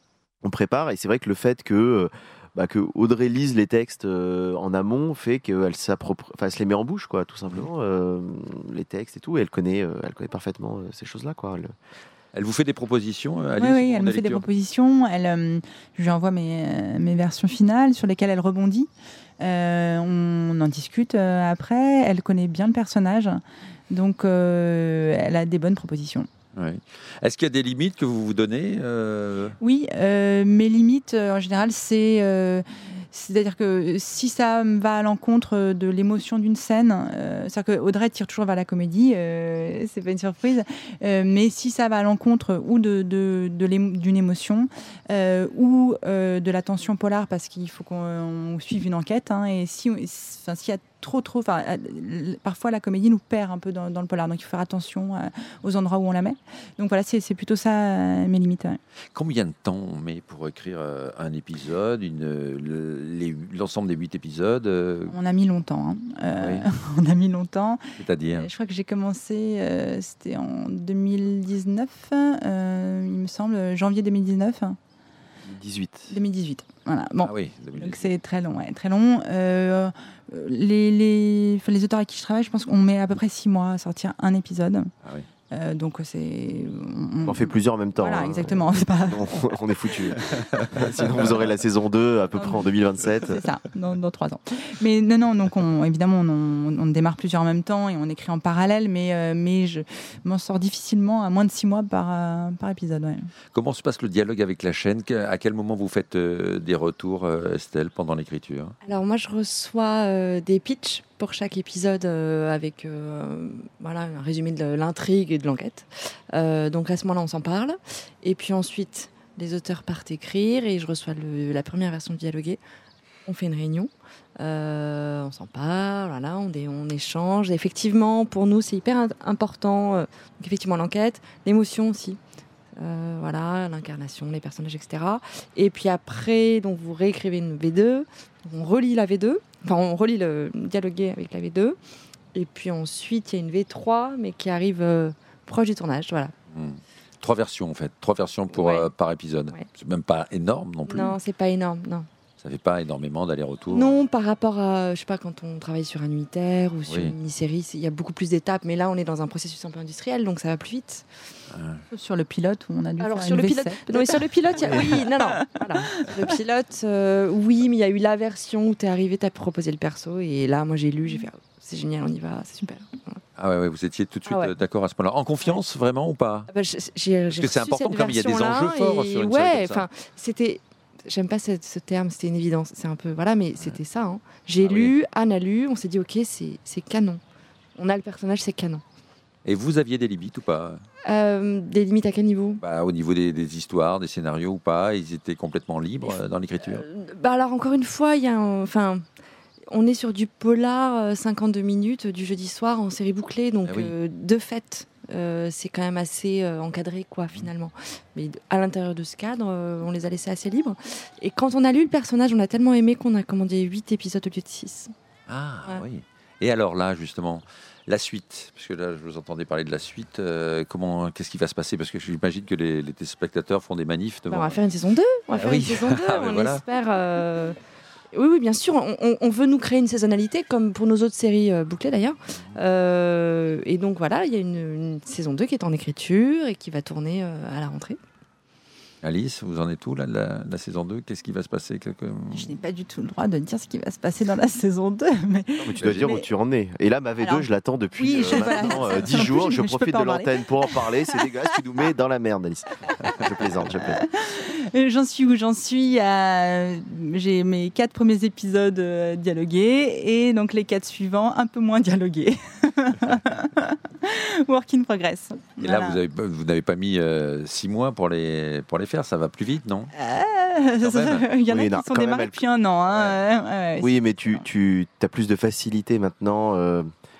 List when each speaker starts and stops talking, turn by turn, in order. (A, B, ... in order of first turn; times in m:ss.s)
0:00.4-0:11.7 A
0:12.3-0:14.4 B
0:13.6-0:18.9 C
0:19.4-0:26.3 C
0:26.6-0:29.6 B
0:29.6-0:58.8 C
0:59.1-1:05.1 B
1:05.1-1:14.8 C
1:06.3-1:06.6 B
1:08.0-1:08.5 B
1:15.5-1:16.1 A
1:16.1-1:24.9 C
1:17.2-1:18.0 B
1:25.5-1:29.9 C
1:27.2-1:33.4 A
1:30.3-1:31.1 B
1:32.3-1:43.3 C
1:43.5-1:48.7 B
1:48.8-2:02.6 D
2:03.2-2:12.2 D
2:12.8-2:21.8 D
2:22.3-2:26.3 D
2:26.5-2:31.2 B
2:28.5-2:28.9 D
2:30.9-2:32.1 D
2:32.4-2:34.0 B
2:33.7-2:41.1 D
2:36.9-2:37.2 B
2:41.5-2:41.8 B
2:41.9-2:46.3 C
2:43.0-2:53.2 D
2:44.6-2:45.0 B
2:53.4-2:56.5 B
2:54.3-2:54.5 D
2:56.5-3:07.2 D
2:57.3-2:59.8 B
3:04.6-3:04.9 B
3:07.8-3:08.8 D
3:09.4-3:10.8 B
3:11.0-3:12.6 D
3:12.6-3:16.8 B
3:16.0-3:19.0 D
3:19.7-3:34.9 D
3:23.6-3:23.9 B
3:35.3-3:44.6 B
3:44.3-3:47.6 D
3:45.3-3:46.6 B
3:48.1-3:58.0 D
3:59.0-4:02.5 B
4:02.3-4:06.3 C
4:05.6-4:14.0 A
4:05.8-4:06.0 B
4:07.2-4:10.9 C
4:14.0-4:26.0 C
4:25.6-4:29.9 B
4:29.9-4:34.4 C
4:30.8-4:31.3 B
4:31.5-4:32.4 A
4:33.8-4:36.9 A